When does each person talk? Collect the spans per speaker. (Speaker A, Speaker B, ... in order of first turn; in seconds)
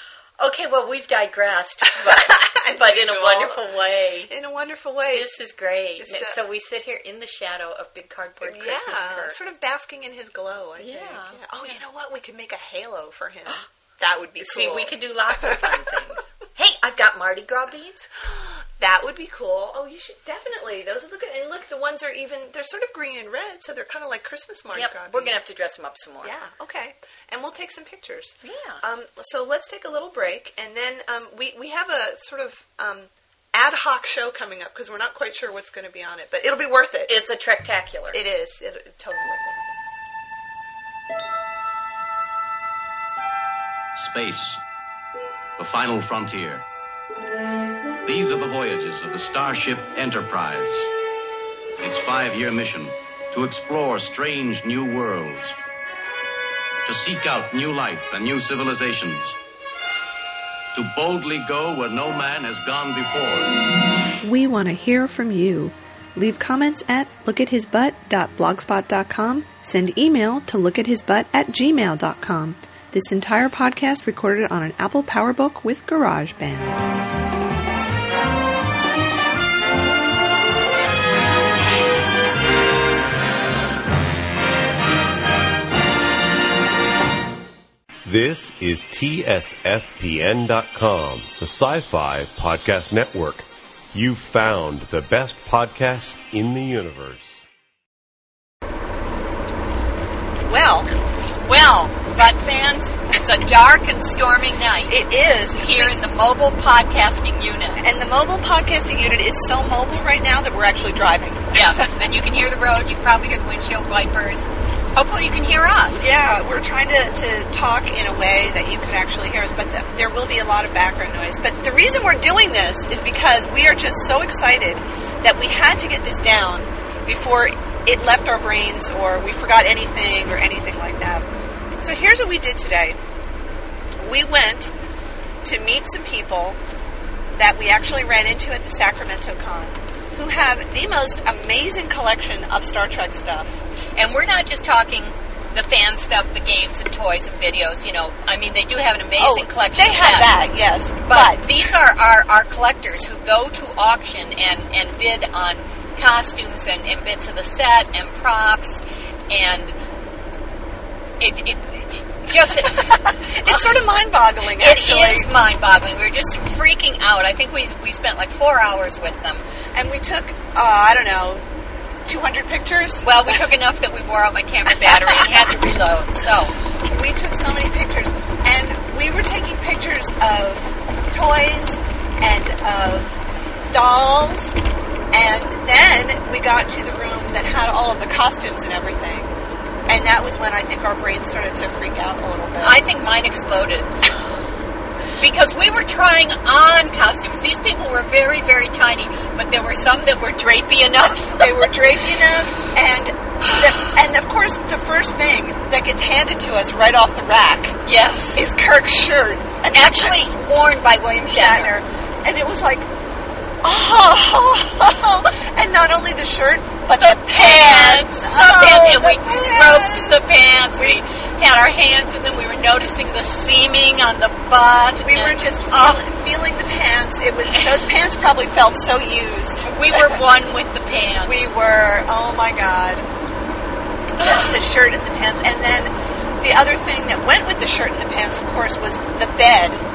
Speaker A: 0.4-4.3, 5.1-9.3, 10.8-11.8, 14.4-18.1, 24.7-26.3, 28.4-28.8, 37.1-38.2, 101.4-105.0, 105.5-107.8, 111.5-116.1, 143.9-150.3, 151.1-159.8, 161.2-163.7, 164.6-169.5, 173.0-176.5, 192.6-193.9, 195.2-201.8, 207.8-208.4, 209.7-211.7, 217.0-226.0, 229.6-231.4, 234.2-234.4
Speaker B: 1.9-3.6, 4.3-5.3, 6.0-6.4, 8.4-16.1, 18.2-25.4, 26.2-37.2, 38.1-39.7, 64.2-76.8, 100.5-101.0, 104.9-105.9, 107.8-111.9, 115.9-131.2, 131.8-133.0, 134.0-134.7, 135.4-136.6, 137.3-143.6, 149.2-151.7, 162.7-165.3, 169.7-171.4, 172.0-173.4, 174.7-175.5, 176.8-184.6, 185.1-192.8, 201.4-207.8, 208.3-210.2, 211.3-212.9, 213.6-221.0, 225.0-230.2, 231.2-233.1, 234.2-239.8
Speaker C: 43.9-44.6, 45.6-46.6, 48.0-50.9, 51.8-55.5, 56.9-59.4, 60.7-63.6
Speaker D: 88.0-97.5